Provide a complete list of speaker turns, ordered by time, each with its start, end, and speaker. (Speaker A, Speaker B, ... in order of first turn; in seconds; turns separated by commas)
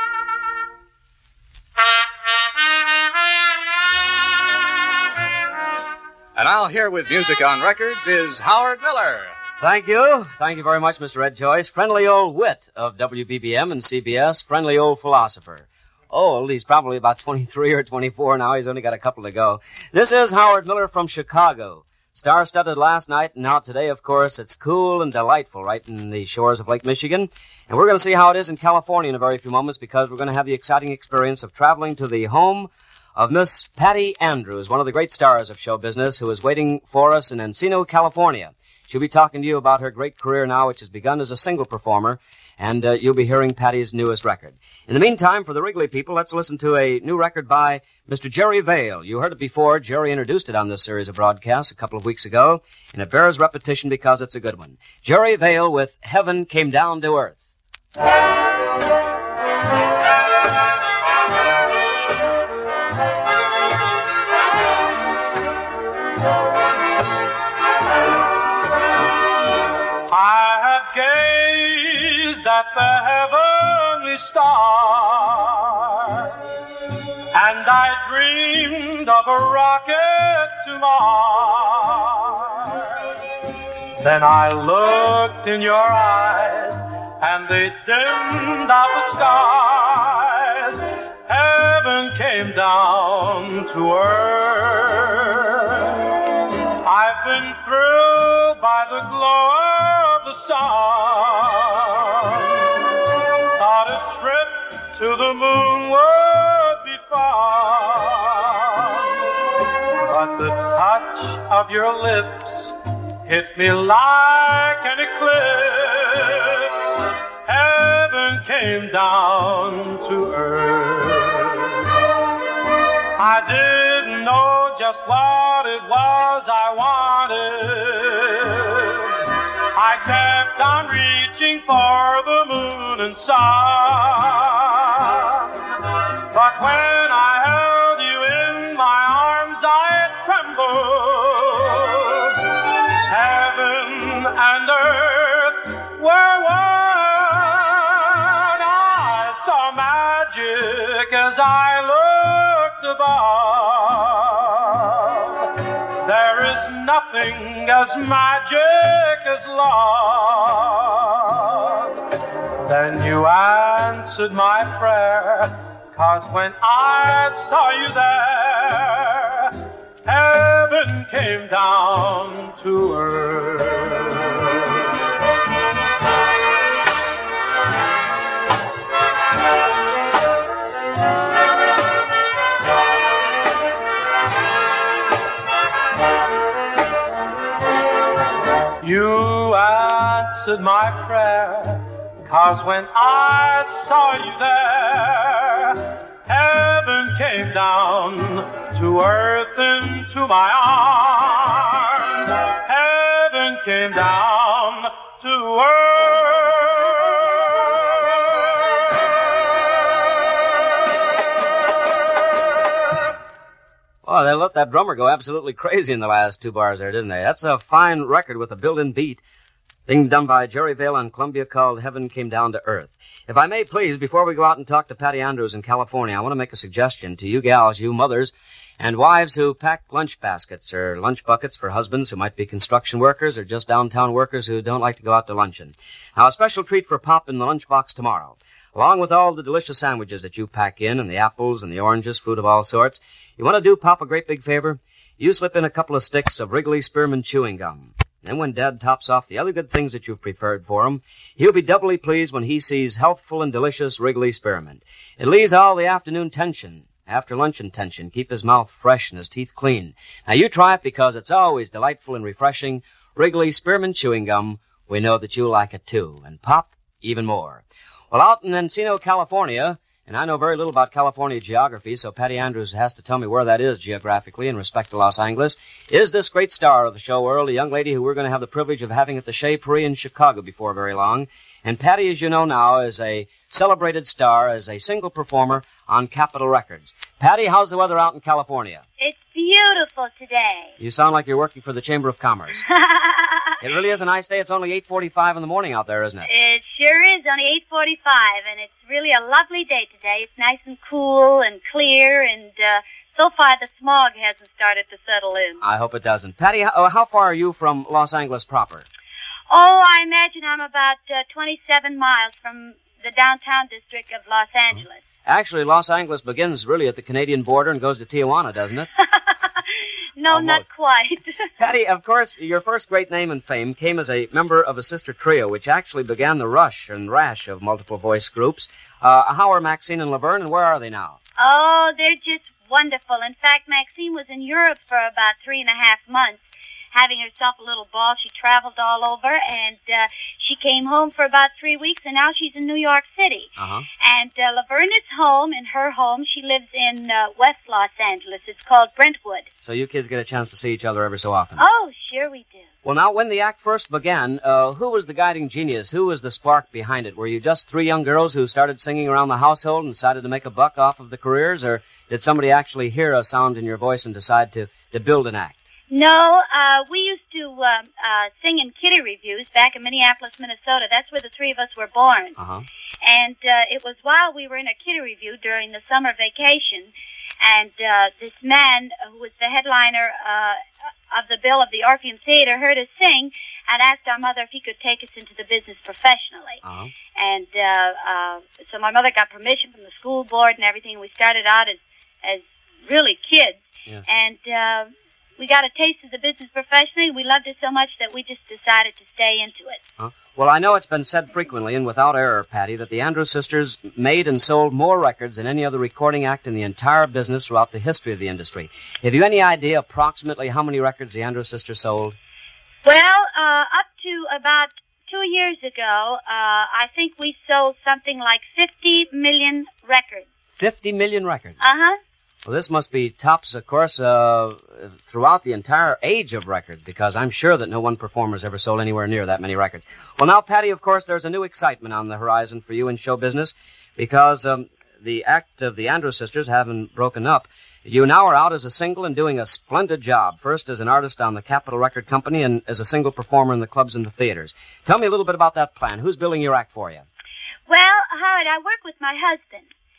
Speaker A: 6.3-9.3, Speaker B: 9.6-57.4, Speaker C: 70.1-76.5, Speaker C: 77.3-83.2, Speaker C: 84.0-96.1, Speaker C: 96.8-102.8, Speaker C: 103.6-109.1, Speaker C: 110.0-121.9, Speaker C: 123.2-135.7, Speaker C: 136.3-142.5, Speaker C: 143.1-161.9, Speaker C: 162.7-174.8, Speaker C: 188.8-207.9, Speaker B: 214.0-219.2, Speaker B: 219.9-288.8, Speaker D: 289.0-290.7, Speaker B: 290.8-292.6, Speaker D: 292.7-293.5, Speaker B: 293.6-296.3, Speaker D: 296.2-305.6, Speaker B: 305.6-308.9, Speaker D: 309.5-315.0, Speaker B: 315.2-318.9, Speaker D: 319.0-321.5, Speaker B: 320.3-320.6, Speaker B: 321.6-331.2, Speaker D: 331.4-349.5, Speaker B: 343.6-343.9, Speaker B: 349.6-351.6, Speaker D: 351.6-352.6, Speaker B: 352.8-365.6, Speaker D: 365.9-372.4, Speaker B: 372.4-372.6, Speaker D: 373.0-386.6, Speaker B: 386.6-386.9, Speaker D: 387.1-399.8, Speaker B: 400.0-412.1, Speaker D: 412.8-420.3, Speaker B: 420.6-421.6, Speaker D: 421.6-421.9, Speaker B: 422.4-447.0, Speaker D: 447.7-449.7